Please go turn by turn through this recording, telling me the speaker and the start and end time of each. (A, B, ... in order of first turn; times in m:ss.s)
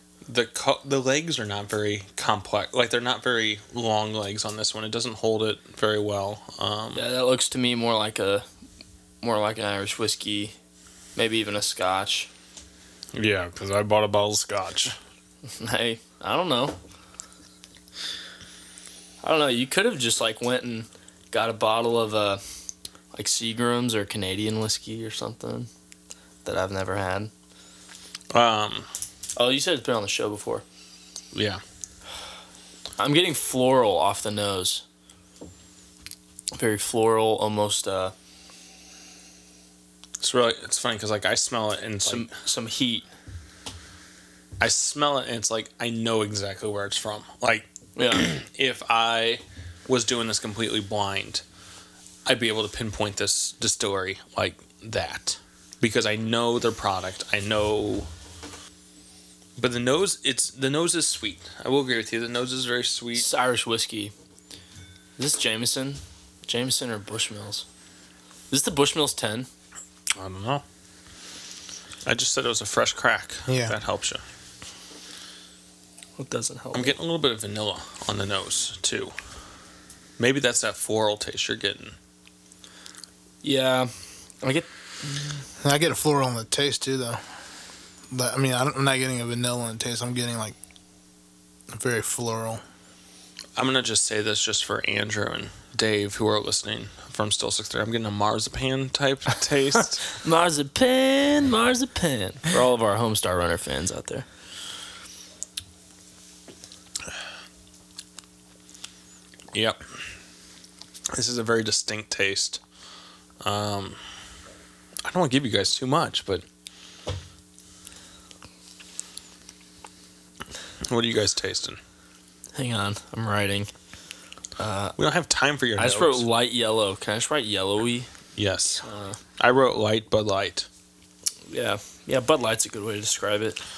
0:00.2-0:07.0 A
0:06.9-0:08.4 B
0:09.2-0:10.5 B
0:11.2-0:12.3 B
0:13.1-0:14.9 A
0:15.5-0:16.8 B
0:19.2-0:22.4 B
0:23.1-0:25.7 B
0:26.4-0:27.3 B
0:28.3-0:28.9 A
0:29.4-0:30.6 B
0:31.3-0:31.6 A
0:33.0-0:34.8 B
0:36.5-0:38.1 B
0:40.2-0:42.3 A
0:42.0-0:43.0 B
0:44.6-0:51.4 A
0:48.0-0:48.3 B
0:52.2-0:58.1 A
0:59.6-1:03.3 A
1:03.1-1:04.1 B
1:05.2-1:07.6 B
1:08.5-1:09.5 B
1:10.2-1:10.6 A
1:12.0-1:14.2 A
1:13.5-1:13.8 C
1:16.2-1:17.0 B
1:16.7-1:19.1 A
1:20.2-1:22.0 A
1:23.4-1:23.9 B
1:24.4-1:25.4 B
1:25.6-1:27.2 C
1:28.1-1:30.6 C
1:31.7-1:32.6 C
1:33.6-1:40.1 A
1:40.1-1:44.2 B
1:49.5-1:49.8 A
1:51.1-1:52.6 A
1:53.4-1:54.0 A
1:55.0-1:56.4 A
2:00.8-2:01.8 A
2:02.5-2:03.7 B
2:04.6-2:05.0 B
2:05.0-2:06.2 A
2:05.8-2:08.1 B
2:08.4-2:08.8 A
2:08.8-2:09.2 B
2:09.4-2:10.7 A
2:11.5-2:13.6 B